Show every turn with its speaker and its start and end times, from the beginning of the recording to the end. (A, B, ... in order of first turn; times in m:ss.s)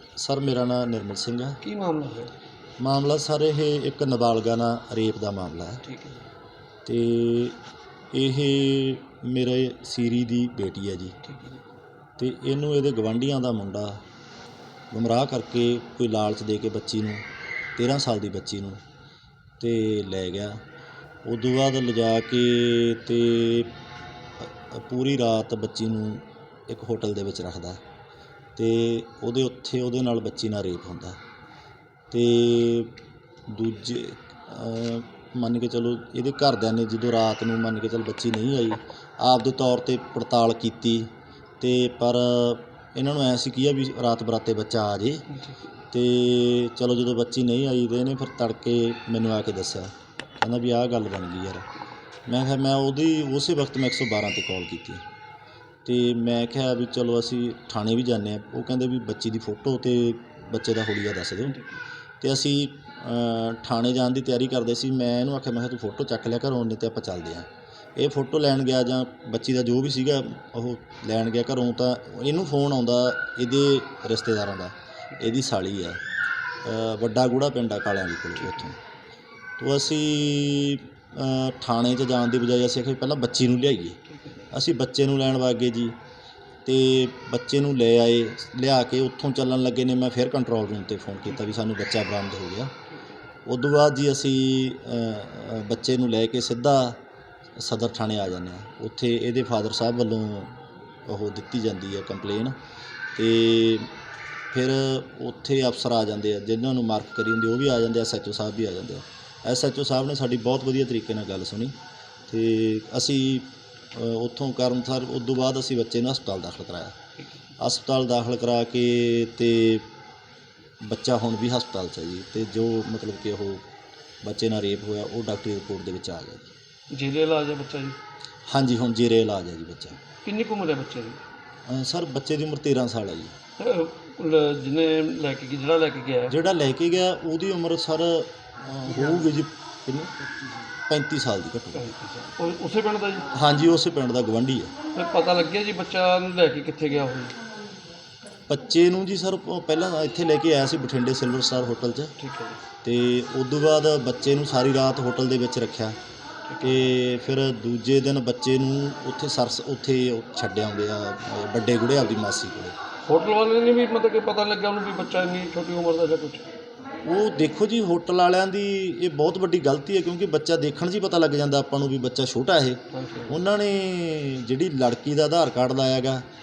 0:00.2-0:01.6 A
0:01.6-0:02.3 B
0:02.8-0:05.8 A
0:05.8-0:06.3 B
0:06.9-0:07.6 A
0:08.1-0:11.2 A
0:11.2-0:11.6 B
0:12.2-0:14.0 A
0:14.9-0:17.2 A
0:17.8-0:18.8 A
0:19.6-0:20.6 A
0:21.2-0:23.8 A
0:24.4-0:27.8 A
0:28.6-0:31.2 A
0:32.1-0:33.0 A
0:33.5-0:45.2 A
0:45.3-0:45.6 B
0:45.9-0:51.7 A
0:52.3-0:55.0 A
0:55.8-1:01.6 A
1:01.5-1:01.8 B
1:02.2-1:16.0 A
1:16.6-1:18.8 A
1:18.4-1:18.7 B
1:19.6-1:24.0 A
1:24.1-1:24.5 B
1:24.5-1:26.0 A
1:26.6-1:32.7 A
1:32.9-1:33.2 B
1:33.4-1:37.0 A
1:37.6-1:42.6 A
1:43.2-1:43.9 A
1:44.5-1:51.8 A
1:52.3-1:57.0 A
1:57.2-1:57.5 B
1:57.6-1:59.9 A
2:00.8-2:03.7 A
2:04.2-2:06.5 A
2:06.9-2:08.0 B
2:08.5-2:10.0 A
2:10.2-2:11.2 B
2:11.7-2:13.4 A
2:13.6-2:16.4 B
2:16.3-2:20.1 A
2:18.9-2:19.3 B
2:20.3-2:20.6 B
2:20.9-2:21.9 A
2:21.7-2:23.3 B
2:23.3-2:24.8 A
2:24.9-2:27.4 B
2:28.5-2:32.1 A
2:32.2-2:32.6 B
2:32.8-2:36.0 A
2:36.5-2:36.8 B
2:36.6-2:42.8 A
2:43.1-2:46.5 B
2:47.0-2:56.2 A
2:52.9-2:53.4 B